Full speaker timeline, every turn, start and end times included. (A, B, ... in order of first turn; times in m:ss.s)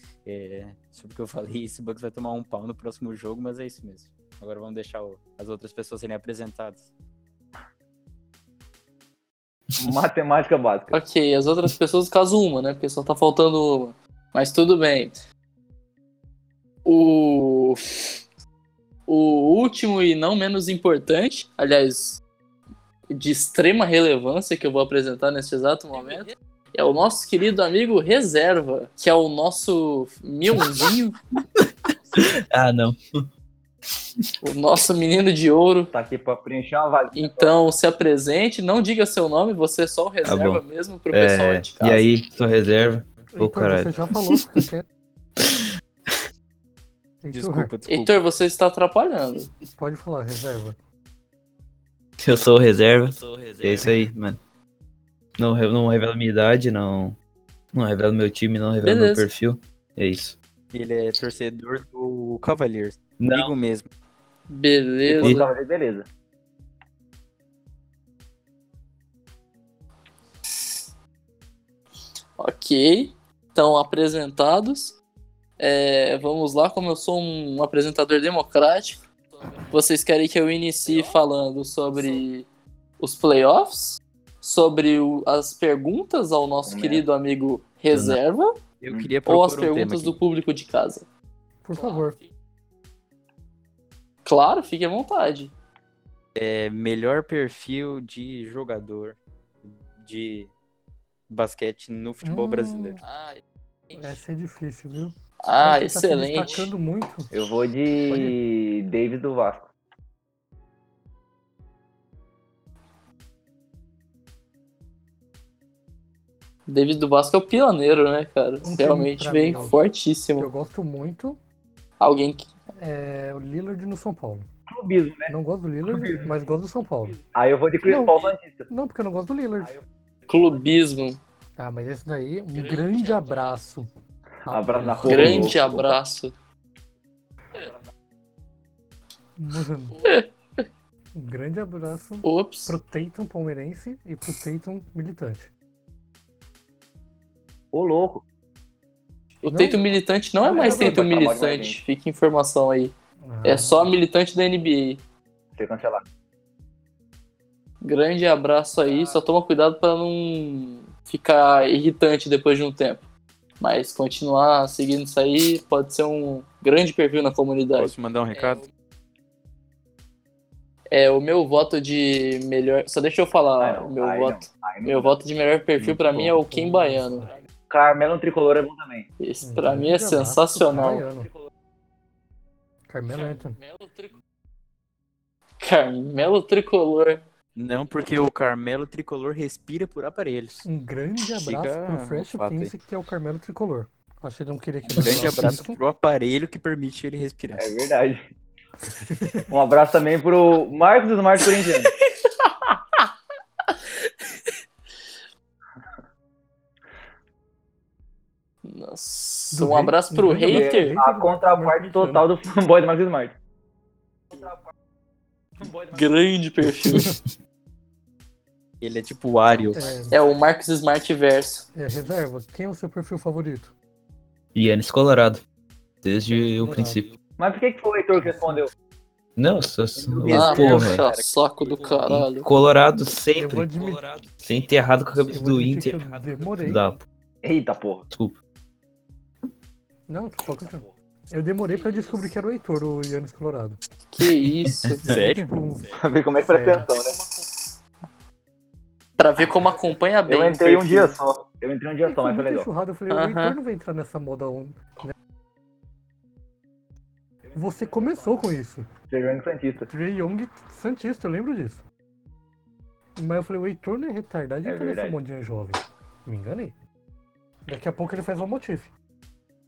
0:00.2-0:06.9 A
0:09.8-0:11.0 B
0:10.9-0:15.1 C
0:16.8-0:17.8 C
0:19.1-0:22.2 C
0:23.1-0:31.2 C
0:30.5-0:30.9 D
0:31.6-0:33.3 D
0:34.4-0:35.9 C
0:35.9-0:37.5 B
0:37.1-0:42.1 C
0:40.2-0:44.6 D
0:43.3-0:44.8 E
0:45.4-0:46.2 D
0:47.2-0:47.7 E
0:47.3-0:48.2 A
0:47.9-0:49.5 C
0:49.8-0:50.8 E
0:52.2-0:54.4 D
0:55.4-0:57.2 D
0:57.7-1:00.4 D
0:58.8-0:59.3 C
1:00.7-1:03.9 A
1:03.2-1:03.5 D
1:04.5-1:05.5 C
1:05.0-1:06.1 B
1:12.4-1:14.9 C
1:15.6-1:22.5 C
1:23.0-1:28.6 C
1:26.6-1:27.1 B
1:28.8-1:30.2 A
1:29.2-1:31.0 C
1:31.6-1:32.2 E
1:31.8-1:32.3 C
1:34.2-1:35.5 C
1:36.3-1:40.5 A
1:41.3-1:43.0 A
1:42.2-1:43.0 E
1:43.0-1:43.4 C
1:43.9-1:47.3 E
1:45.4-1:46.7 C
1:47.3-1:49.7 B
1:48.1-1:48.4 E
1:56.7-2:00.5 C
1:58.6-1:59.8 E
2:00.4-2:01.4 E
2:02.0-2:02.5 C
2:02.8-2:04.5 E
2:04.7-2:05.3 B
2:05.3-2:07.2 E
2:05.8-2:06.3 B
2:07.3-2:08.7 B
2:07.8-2:09.8 E
2:10.3-2:11.2 C
2:11.6-2:13.9 E
2:12.7-2:13.2 C
2:14.4-2:15.8 E
2:14.5-2:15.9 B
2:15.0-2:16.3 C
2:19.4-2:20.0 E
2:20.0-2:20.6 C
2:21.1-2:25.5 E
2:22.2-2:22.7 C
2:27.7-2:28.2 B
2:29.4-2:32.9 C
2:29.5-2:29.8 E
2:30.4-2:31.0 E
2:30.5-2:31.8 B
2:33.2-2:33.9 E
2:33.4-2:35.0 C
2:35.6-2:36.0 B
2:37.8-2:43.1 C
2:43.6-2:48.6 C
2:47.8-2:48.6 A
2:50.9-2:57.4 C
2:53.6-2:55.1 B
2:55.8-2:56.4 A
2:56.4-2:57.3 E
2:57.7-2:59.1 B
2:59.2-3:01.0 C
2:59.4-3:01.3 E
3:02.9-3:03.6 E
3:03.1-3:04.1 C
3:05.6-3:07.2 C
3:07.6-3:10.6 A
3:10.6-3:15.8 E
3:11.4-3:12.7 A
3:14.9-3:17.7 A
3:17.6-3:18.3 B
3:19.0-3:19.5 E
3:19.5-3:21.9 B
3:21.4-3:23.0 C
3:23.7-3:24.1 C
3:28.6-3:31.0 C
3:29.5-3:32.2 E
3:30.5-3:33.4 B
3:35.6-3:36.0 B
3:35.9-3:37.1 C
3:36.8-3:37.1 D
3:38.8-3:39.8 A
3:39.7-3:40.2 E
3:40.1-3:41.7 C
3:41.7-3:43.7 E
3:44.5-3:45.4 D
3:46.0-3:47.1 D
3:46.6-3:47.0 E
3:47.4-3:48.7 B
3:48.2-3:48.6 E
3:49.4-3:51.0 D
3:50.0-3:52.2 A
3:50.1-3:50.6 B
3:50.3-3:52.5 C
3:52.1-3:57.0 D
3:53.4-3:54.0 E
3:55.3-3:56.9 E
3:57.4-3:58.1 B
3:58.1-3:58.4 D
4:00.1-4:03.8 E
4:04.1-4:05.0 C
4:04.6-4:05.0 D
4:05.0-4:05.9 E
4:05.0-4:06.0 A
4:05.9-4:07.2 B
4:06.4-4:06.9 E
4:09.2-4:11.2 C
4:10.3-4:12.7 B
4:12.0-4:15.1 E
4:13.1-4:13.6 C
4:17.5-4:18.8 E
4:19.1-4:19.9 B
4:19.9-4:21.8 E
4:23.2-4:26.7 E
4:24.6-4:25.2 B
4:27.6-4:28.9 E